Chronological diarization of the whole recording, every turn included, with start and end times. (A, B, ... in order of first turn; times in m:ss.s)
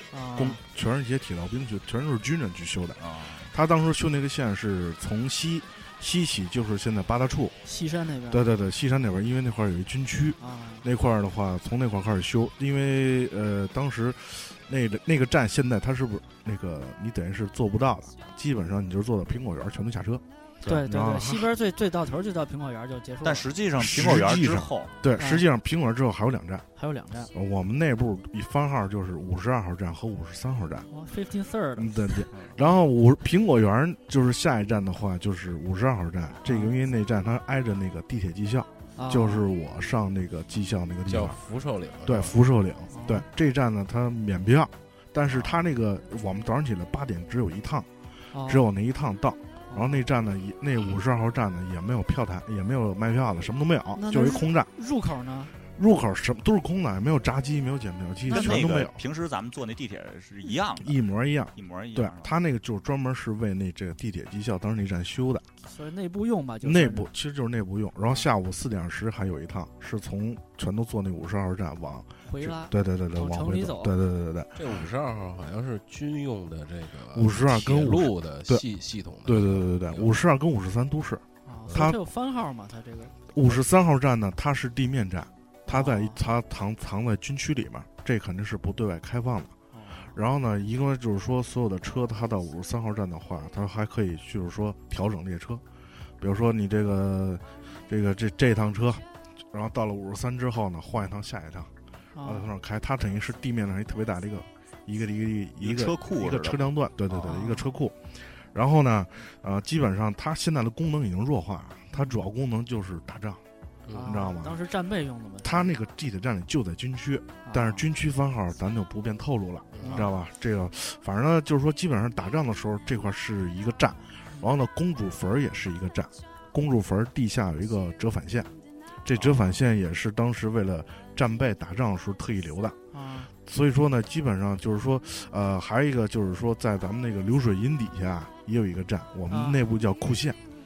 0:00.1-0:00.6 A
0:00.3-0:07.6 B
0:03.0-0:03.5 C
0:07.6-0:08.5 A
0:08.3-0:21.5 B
0:10.4-0:10.8 A
0:20.7-0:23.5 A
0:23.2-0:24.9 C
0:23.8-0:26.7 B
0:25.2-0:25.4 A
0:26.8-0:27.3 A
0:27.3-0:30.9 B
0:30.9-0:32.2 A
0:31.8-0:41.4 B
0:36.5-0:36.7 A
0:39.0-0:39.4 A
0:41.1-0:42.4 D
0:42.0-0:54.7 B
0:42.9-0:43.2 A
0:45.3-0:45.6 C
0:48.3-0:48.6 A
0:49.7-0:50.0 A
0:54.0-0:55.5 A
0:55.8-0:59.0 B
0:58.3-0:58.6 A
0:58.3-1:01.0 C
1:00.8-1:05.5 B
1:01.6-1:02.4 C
1:05.7-1:07.1 A
1:06.6-1:14.8 B
1:12.3-1:13.9 A
1:14.6-1:20.1 D
1:17.1-1:18.6 B
1:19.2-1:22.0 B
1:21.5-1:23.2 A
1:23.3-1:35.6 B
1:25.7-1:26.2 A
1:29.7-1:30.1 A
1:36.2-1:53.4 B
1:42.1-1:42.5 A
1:45.6-1:46.6 C
1:47.2-1:47.7 A
1:53.9-1:54.2 D
1:53.9-1:55.7 A
1:54.0-1:54.6 B
1:55.4-2:08.5 B
1:57.5-1:57.8 A
1:59.7-2:00.1 D
1:59.8-2:00.1 A
2:09.0-2:12.8 B
2:09.2-2:09.5 D
2:12.9-2:13.3 A
2:13.4-2:20.4 B
2:19.3-2:19.6 A